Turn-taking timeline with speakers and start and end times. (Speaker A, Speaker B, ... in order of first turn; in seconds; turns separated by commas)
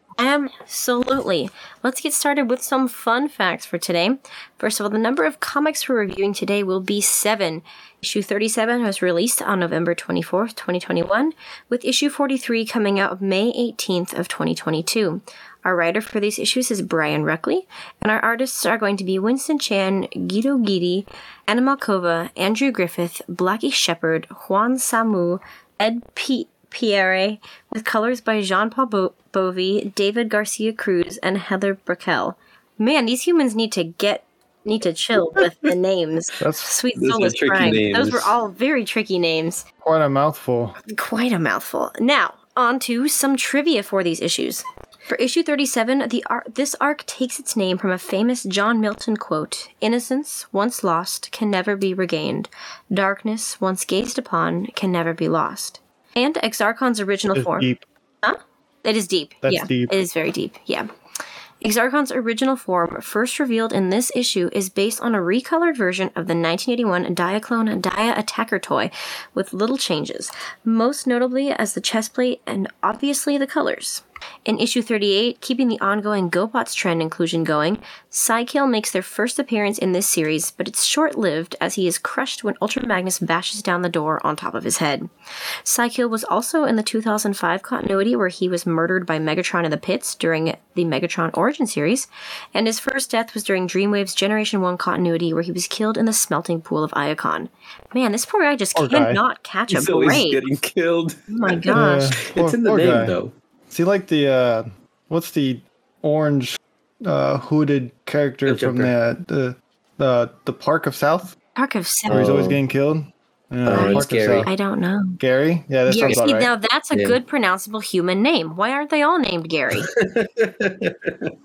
Speaker A: 0.2-39.6, Speaker B: 36.4-36.7, Speaker C: 37.0-38.3, Speaker B: 39.8-40.8, Speaker A: 40.9-57.7, Speaker B: 57.3-57.8, Speaker A: 58.2-60.9, Speaker B: 59.4-59.9, Speaker A: 61.6-85.1, Speaker A: 85.6-100.4, Speaker B: 98.8-99.2, Speaker C: 99.7-103.3, Speaker A: 101.3-102.1, Speaker B: 101.7-103.2, Speaker B: 103.7-111.3, Speaker C: 108.5-108.9, Speaker A: 111.5-112.2, Speaker C: 112.1-112.6, Speaker B: 112.1-114.5, Speaker C: 113.7-114.5, Speaker A: 113.7-115.2, Speaker B: 115.2-116.5, Speaker A: 115.9-119.9, Speaker C: 116.9-117.2, Speaker C: 119.9-121.3